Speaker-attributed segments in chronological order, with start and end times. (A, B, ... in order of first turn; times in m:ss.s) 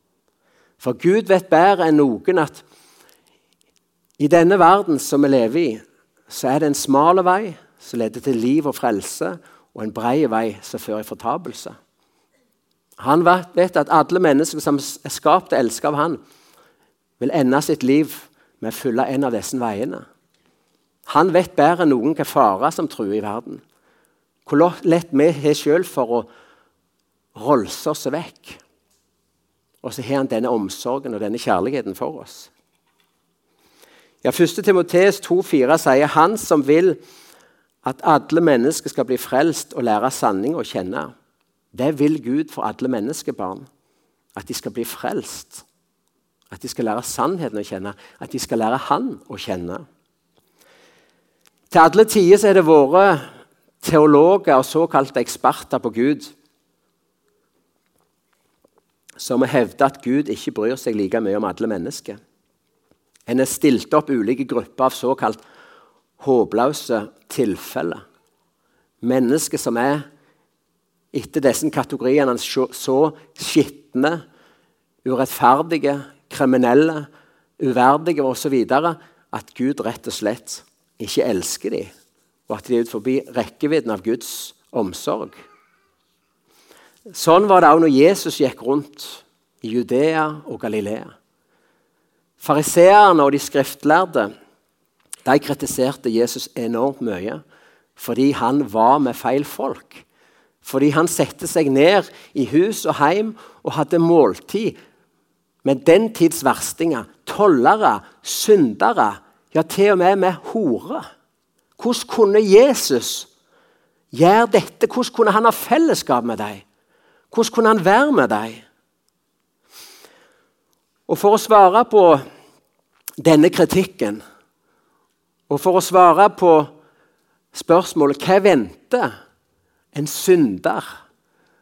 0:00.8-0:02.6 A
0:04.2-0:11.7 A
0:13.0-0:16.2 A
0:17.2-0:20.0 A
0:21.1-0:23.6 A
0:24.4-0:26.3 A
0:27.3-0:28.6 A
0:29.8-0:32.5 A
0:34.2-0:37.0 A
0:37.8-0:41.1 A
0:41.7-0:43.7 A
0:44.3-0:45.6 A
0:46.5-0:49.8 A
0:51.7-0:53.3 A
0:53.8-0:56.3 A
0:59.2-1:02.2 A
1:03.3-1:05.4 A
1:06.2-1:08.0 A
1:09.0-1:10.0 A
1:11.1-1:14.2 A
1:15.0-1:17.1 A
1:17.6-1:21.9 A
1:22.5-1:25.4 A
1:27.1-1:31.1 A
1:32.4-1:34.3 A
1:35.2-1:37.4 A
1:38.0-1:40.0 A
1:40.6-1:44.8 A
1:45.6-1:51.0 A
1:51.8-1:53.3 A
1:54.1-1:56.6 A
1:57.3-1:58.6 A
2:01.1-2:02.2 A
2:03.2-2:04.2 A
2:05.5-2:06.7 A
2:07.5-2:09.1 A
2:09.9-2:11.0 A